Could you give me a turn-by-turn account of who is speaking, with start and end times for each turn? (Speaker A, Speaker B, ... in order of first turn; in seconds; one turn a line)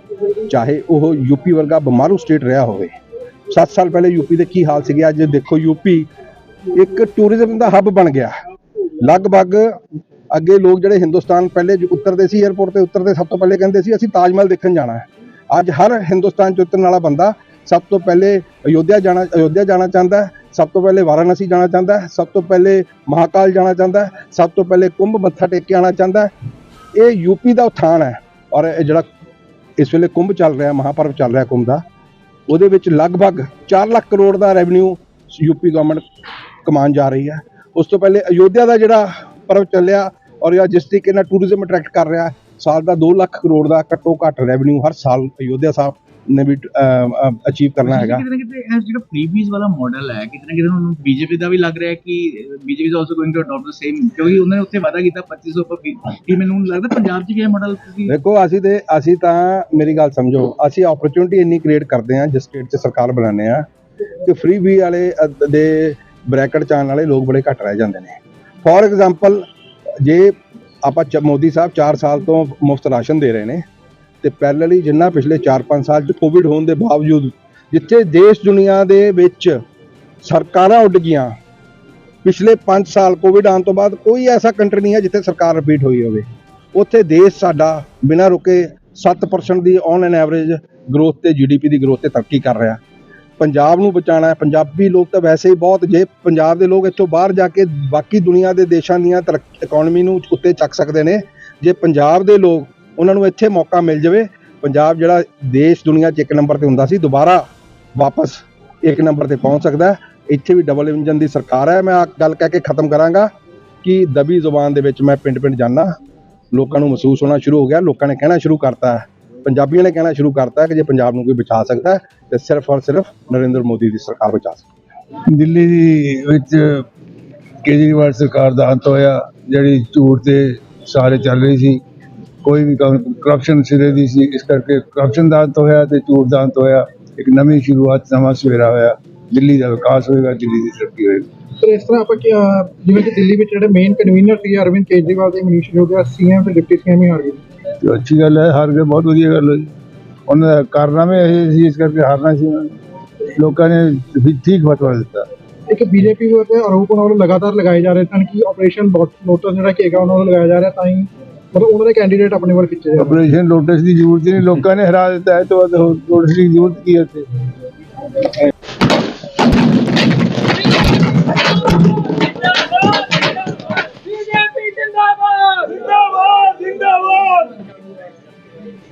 Speaker A: 0.5-2.9
Speaker A: 3.5-6.1
Speaker A: 6.7-8.3
Speaker A: 9.0-9.8
Speaker A: 10.3-26.3
Speaker A: 26.9-29.1
Speaker A: 29.8-31.8
Speaker A: 32.5-36.0
Speaker A: 36.6-48.2
Speaker B: 47.8-58.1
Speaker A: 58.1-63.6
Speaker A: 64.2-69.5
Speaker A: 70.0-73.6
Speaker A: 74.2-79.6
Speaker A: 80.2-81.3
Speaker A: 82.2-92.8
Speaker A: 93.4-107.5
Speaker A: 108.0-113.3
Speaker A: 113.8-115.9
Speaker A: 116.5-124.7
Speaker C: 125.3-126.9
Speaker C: 127.6-131.8
Speaker C: 132.4-141.3
Speaker D: 141.6-147.4
Speaker C: 147.8-149.7
Speaker C: 150.3-152.7
Speaker C: 153.3-155.3
Speaker D: 155.7-163.2
Speaker C: 163.0-167.3
Speaker C: 174.1-177.6